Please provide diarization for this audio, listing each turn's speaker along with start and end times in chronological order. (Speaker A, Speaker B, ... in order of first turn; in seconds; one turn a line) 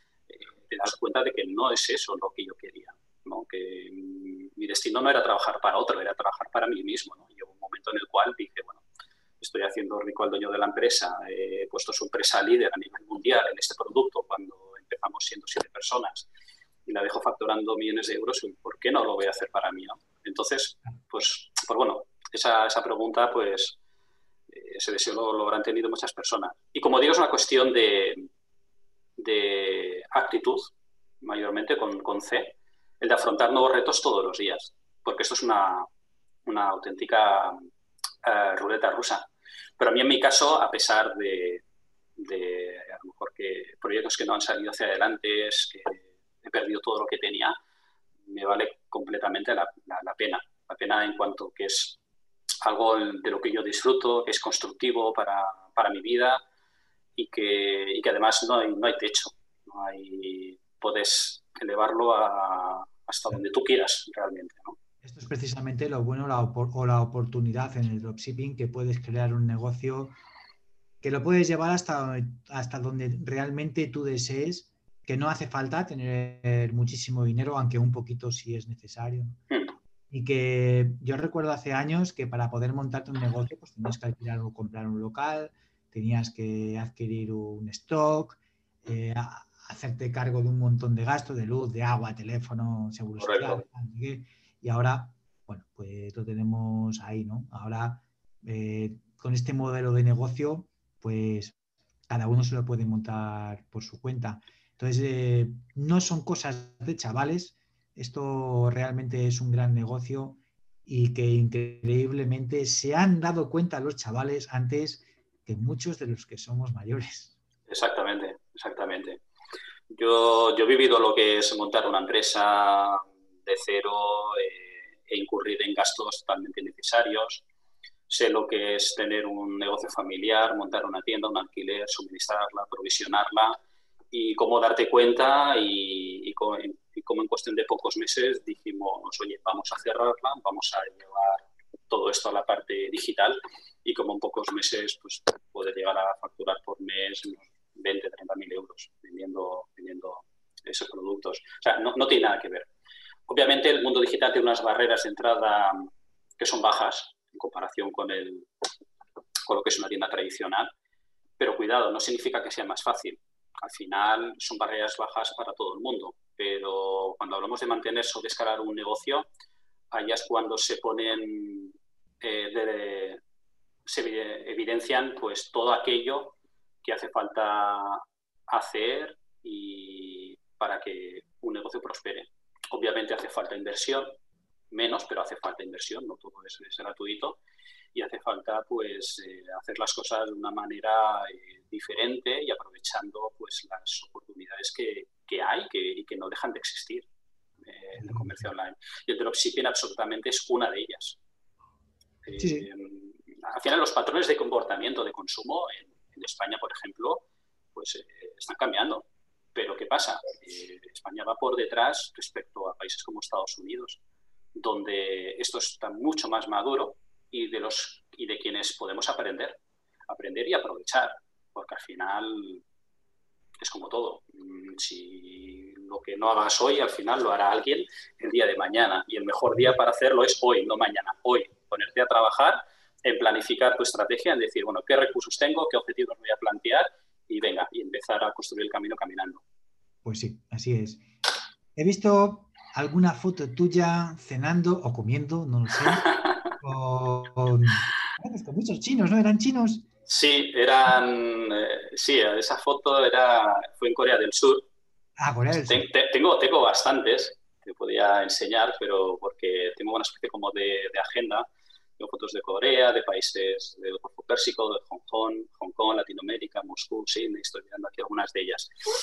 Speaker A: 0.3-8.8
Speaker A: 9.4-16.3
Speaker A: 16.9-23.8
Speaker A: 24.5-28.2
Speaker A: 29.2-35.9
Speaker A: 36.5-37.6
Speaker A: 38.2-39.3
Speaker A: 39.8-41.6
Speaker A: 42.2-47.5
Speaker A: 48.3-52.0
Speaker A: 52.6-56.4
Speaker A: 57.1-64.8
Speaker B: 65.0-70.2
Speaker B: 71.0-79.4
Speaker B: 80.1-101.5
Speaker A: 93.2-93.6
Speaker B: 102.1-117.3
Speaker A: 117.7-119.2
Speaker A: 119.9-127.4
Speaker A: 128.1-133.6
Speaker A: 134.1-152.7
Speaker A: 153.3-158.5
Speaker A: 159.5-160.7
Speaker A: 161.4-169.2
Speaker A: 169.9-173.2
Speaker A: 173.8-184.2
Speaker A: 184.7-187.4
Speaker A: 187.9-197.1
Speaker A: 197.6-201.2
Speaker B: 197.9-198.5
Speaker A: 202.2-214.0
Speaker B: 202.3-202.7
Speaker A: 214.6-222.6
Speaker A: 223.6-239.4
Speaker B: 240.0-241.0
Speaker B: 241.8-249.8
Speaker A: 245.8-246.5
Speaker A: 250.1-254.7
Speaker B: 255.2-255.9
Speaker A: 255.5-261.5
Speaker A: 262.0-268.7